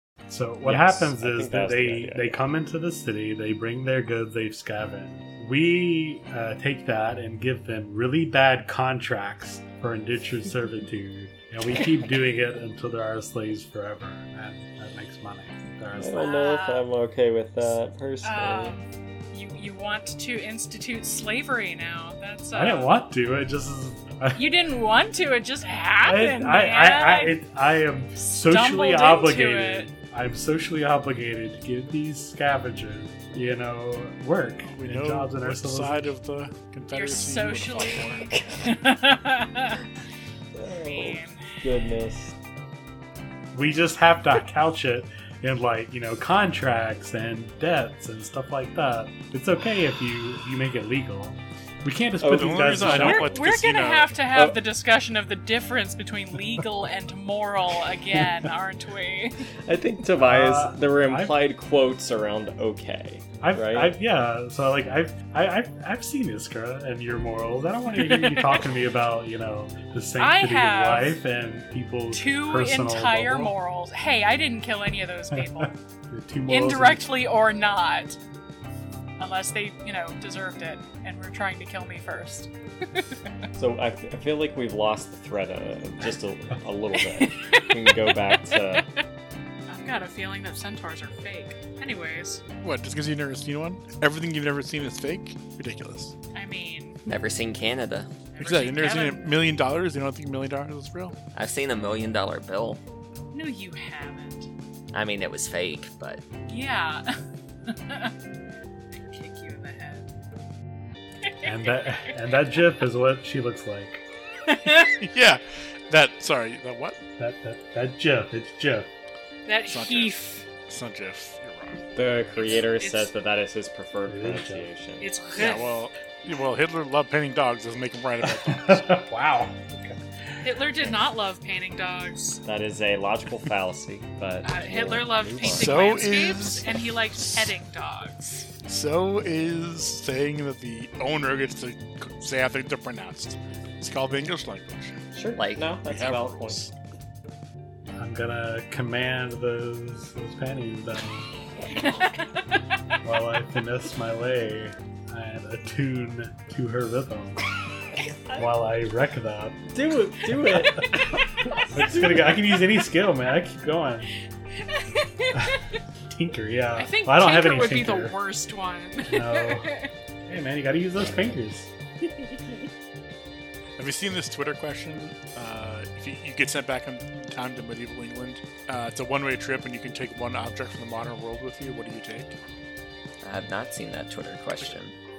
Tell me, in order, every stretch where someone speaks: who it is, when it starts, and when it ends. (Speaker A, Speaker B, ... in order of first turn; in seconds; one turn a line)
Speaker A: 0.3-16.3
Speaker B: 0.6-2.4
Speaker B: 15.9-18.8
Speaker C: 16.2-16.9
Speaker C: 18.2-22.9
Speaker A: 22.5-24.4
Speaker C: 24.4-27.4
Speaker A: 26.0-36.1
Speaker C: 28.2-29.9
Speaker D: 34.6-38.3
Speaker C: 36.9-39.8
Speaker B: 40.5-42.3
Speaker C: 40.7-41.6
Speaker A: 43.5-53.3
Speaker B: 52.2-53.3
Speaker D: 52.4-54.2
Speaker C: 52.8-59.4
Speaker B: 54.3-54.6
Speaker B: 59.6-64.0
Speaker A: 60.2-61.4
Speaker A: 63.4-73.5
Speaker C: 67.9-68.6
Speaker C: 70.2-71.2
Speaker C: 72.1-75.8
Speaker A: 75.3-77.1
Speaker C: 76.5-78.2
Speaker C: 79.2-83.2
Speaker B: 83.6-88.8
Speaker C: 87.0-88.9
Speaker C: 89.7-92.4
Speaker D: 92.6-96.1
Speaker C: 96.3-97.0
Speaker E: 97.1-98.1
Speaker C: 98.3-99.2
Speaker D: 98.4-101.2
Speaker E: 101.3-102.8
Speaker C: 103.3-104.5
Speaker E: 104.9-106.2
Speaker C: 106.5-107.2
Speaker C: 107.7-108.1
Speaker C: 108.9-110.1
Speaker C: 111.2-112.2
Speaker A: 111.4-114.0
Speaker C: 114.5-115.0
Speaker D: 115.0-117.0
Speaker A: 117.2-118.9
Speaker C: 119.5-120.5
Speaker D: 119.7-122.7
Speaker B: 122.0-125.1
Speaker C: 122.5-123.1
Speaker A: 124.1-124.7
Speaker C: 125.0-125.7
Speaker D: 125.4-129.0
Speaker A: 128.2-130.0
Speaker C: 130.4-132.4
Speaker B: 132.4-135.9
Speaker C: 134.4-138.5
Speaker D: 135.4-137.5
Speaker D: 138.6-145.0
Speaker B: 145.1-146.7
Speaker E: 145.4-146.2
Speaker D: 145.9-146.7
Speaker A: 148.0-151.3
Speaker C: 151.7-152.4
Speaker A: 153.0-157.4
Speaker A: 158.3-159.8
Speaker B: 159.7-162.2
Speaker A: 160.3-160.8
Speaker C: 160.6-161.6
Speaker A: 161.7-164.1
Speaker C: 164.6-165.8
Speaker A: 166.1-168.2
Speaker C: 166.8-169.9
Speaker A: 169.1-169.7
Speaker A: 170.3-171.7
Speaker C: 172.2-172.6
Speaker D: 173.8-182.4
Speaker E: 183.2-185.0